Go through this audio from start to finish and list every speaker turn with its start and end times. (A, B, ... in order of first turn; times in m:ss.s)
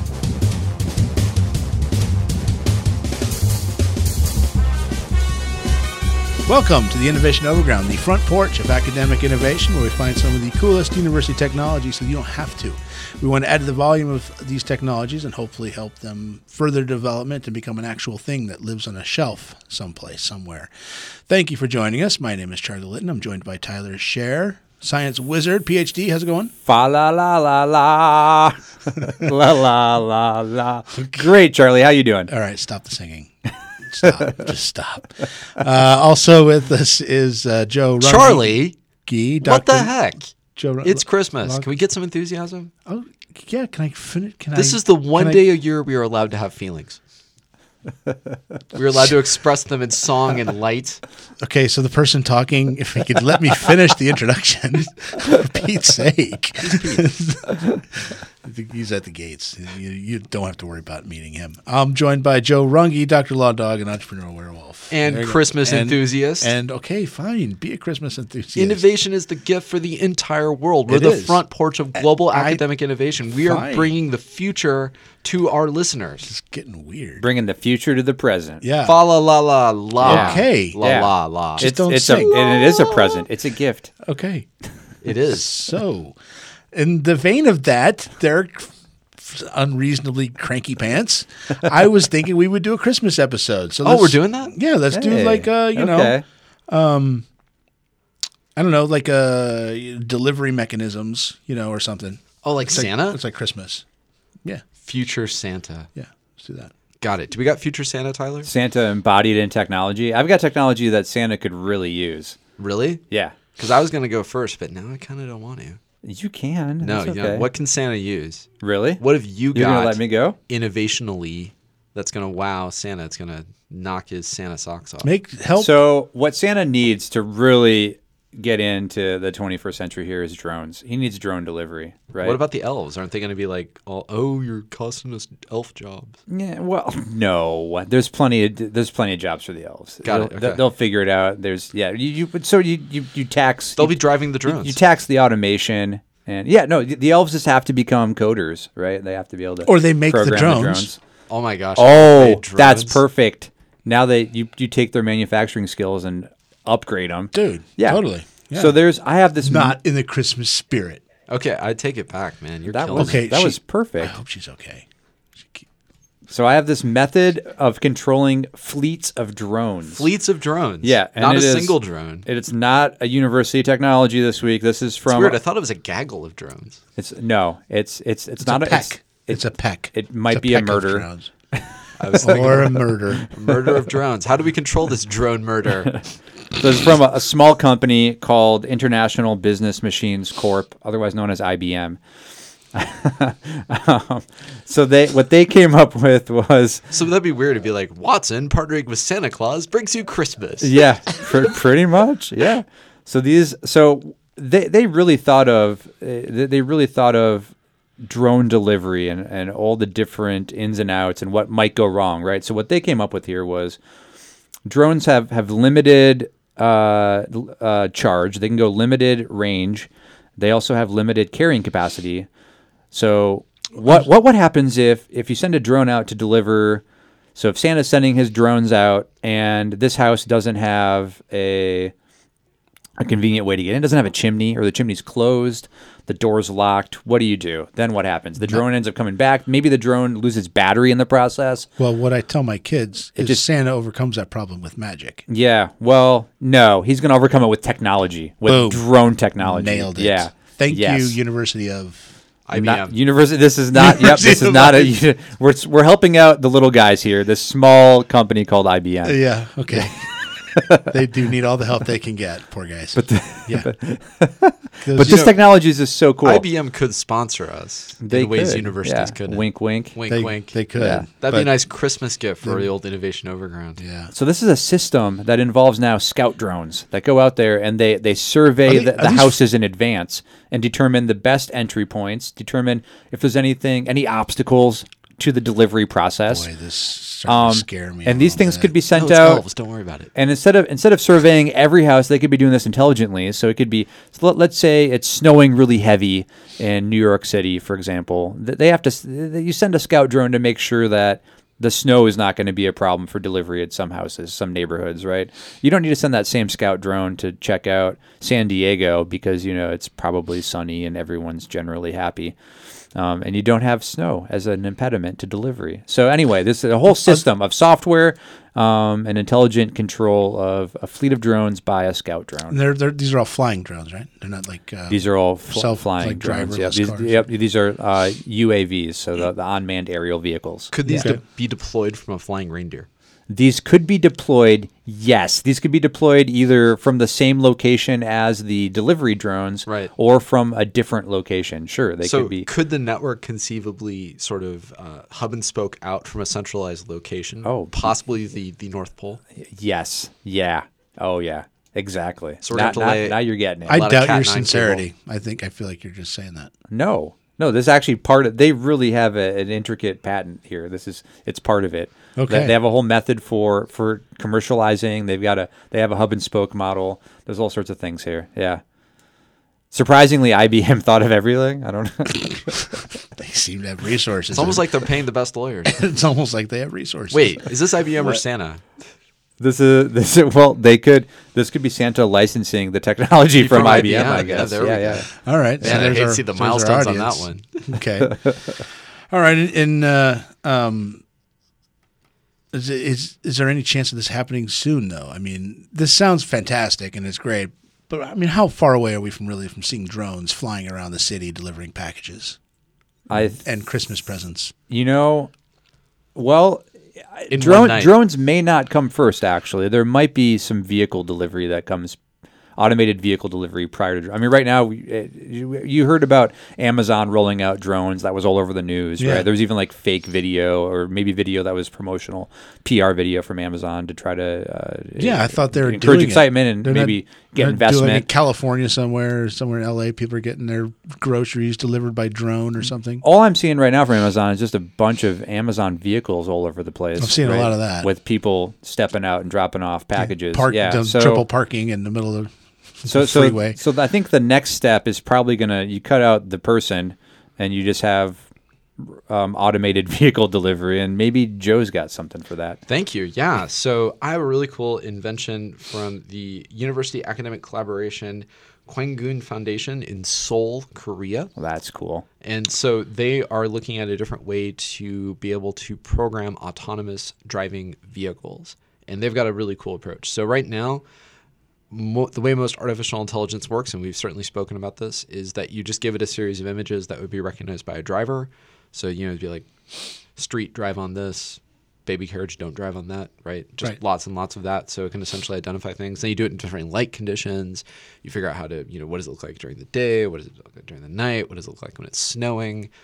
0:06.4-0:26.5 A
0:26.6-0:32.3 B
0:32.3-0:33.3 A
0:33.9-0:41.7 A
0:38.0-0:38.8 C
0:39.4-0:42.7 C
0:42.8-0:45.5 A
0:44.5-0:47.0 C
0:48.7-0:51.0 C
0:51.4-1:08.9 A
0:56.6-0:57.1 C
1:04.9-1:06.5 C
1:08.5-1:16.3 C
1:10.9-1:11.4 A
1:12.0-1:12.6 A
1:13.4-1:13.9 A
1:16.3-1:17.2 A
1:17.2-1:18.6 B
1:18.6-1:19.0 A
1:18.8-1:21.7 C
1:20.0-1:20.8 A
1:20.0-1:23.9 B
1:21.6-1:22.4 A
1:24.0-1:24.5 A
1:25.0-1:25.5 C
1:25.3-1:26.2 A
1:26.7-1:37.2 A
1:33.8-1:34.6 C
1:34.9-1:36.2 B
1:38.6-1:43.8 A
1:42.4-1:43.2 C
1:44.8-1:45.9 C
1:45.9-1:46.7 A
1:47.0-1:48.5 C
1:48.4-1:52.4 B
1:52.6-1:53.0 C
1:53.1-1:53.4 B
1:53.6-1:55.8 C
1:56.0-1:57.5 B
1:56.8-2:05.1 C
1:58.6-2:00.4 B
2:05.0-2:05.8 A
2:05.6-2:12.4 B
2:12.2-2:16.2 C
2:16.3-2:31.0 B
2:20.0-2:20.6 C
2:23.8-2:24.8 C
2:29.6-2:30.9 A
2:31.3-2:33.0 C
2:31.8-2:39.8 B
2:37.3-2:38.8 A
2:39.4-2:41.0 A
2:41.3-2:43.2 C
2:42.7-2:44.2 B
2:42.9-2:44.8 A
2:45.4-2:45.6 A
2:46.3-2:50.0 B
2:49.9-2:52.3 C
2:50.8-2:55.4 B
2:55.0-2:56.8 C
2:57.0-3:01.1 B
2:58.4-3:01.3 A
3:02.0-3:06.0 C
3:02.1-3:03.7 B
3:02.2-3:03.3 A
3:06.6-3:12.0 B
3:12.7-3:16.9 B
3:16.9-3:20.9 C
3:20.6-3:33.8 B
3:34.6-3:42.3 B
3:42.9-3:46.8 B
3:47.4-3:51.9 B
3:53.0-4:01.7 B
3:58.4-3:58.6 A
4:01.8-4:05.2 A
4:03.2-4:03.4 B
4:05.3-4:11.2 B
4:08.4-4:08.8 A
4:09.4-4:12.2 A
4:12.5-4:13.0 C
4:12.5-4:20.8 B
4:13.7-4:15.0 A
4:19.0-4:20.1 A
4:20.8-4:23.7 A
4:22.9-4:26.4 B
4:24.8-4:25.2 A
4:25.0-4:25.4 C
4:26.2-4:33.8 C
4:28.0-4:30.0 B
4:30.1-4:31.5 A
4:30.7-4:31.1 B
4:33.8-4:34.1 A
4:34.1-4:46.5 B
4:38.6-4:39.4 A
4:46.3-4:48.8 A
4:47.2-4:49.4 B
4:48.9-4:50.1 C
4:50.1-5:12.3 B
5:13.0-5:22.6 B
5:22.5-5:27.3 A
5:24.9-5:31.1 B
5:30.7-5:32.9 C
5:30.9-5:31.2 A
5:33.3-5:42.5 B
5:39.6-5:39.9 C
5:42.0-5:49.2 C
5:47.4-5:47.9 B
5:49.4-5:53.9 B
5:52.4-5:54.8 C
5:53.7-5:56.5 A
5:56.7-6:08.6 B
6:02.2-6:02.5 A
6:09.7-6:12.8 B
6:13.1-6:14.9 A
6:14.3-6:15.8 C
6:15.7-6:17.4 A
6:17.1-6:18.6 C
6:19.4-6:25.1 B
6:23.4-6:27.8 C
6:25.1-6:31.0 A
6:32.5-6:42.4 A
6:43.1-6:43.4 B
6:43.1-6:44.5 A
6:44.7-6:45.3 B
6:46.2-6:52.0 B
6:47.3-6:47.9 C
6:52.6-7:08.1 B
6:59.0-6:59.2 A
7:05.0-7:13.0 A
7:13.0-7:21.2 B
7:17.0-7:17.9 A
7:20.0-7:23.6 A
7:22.9-7:28.2 B
7:28.8-7:32.6 B
7:32.7-7:41.3 C
7:41.4-7:42.0 B
7:42.2-7:50.8 C
7:51.7-7:59.5 C
8:00.2-8:12.7 C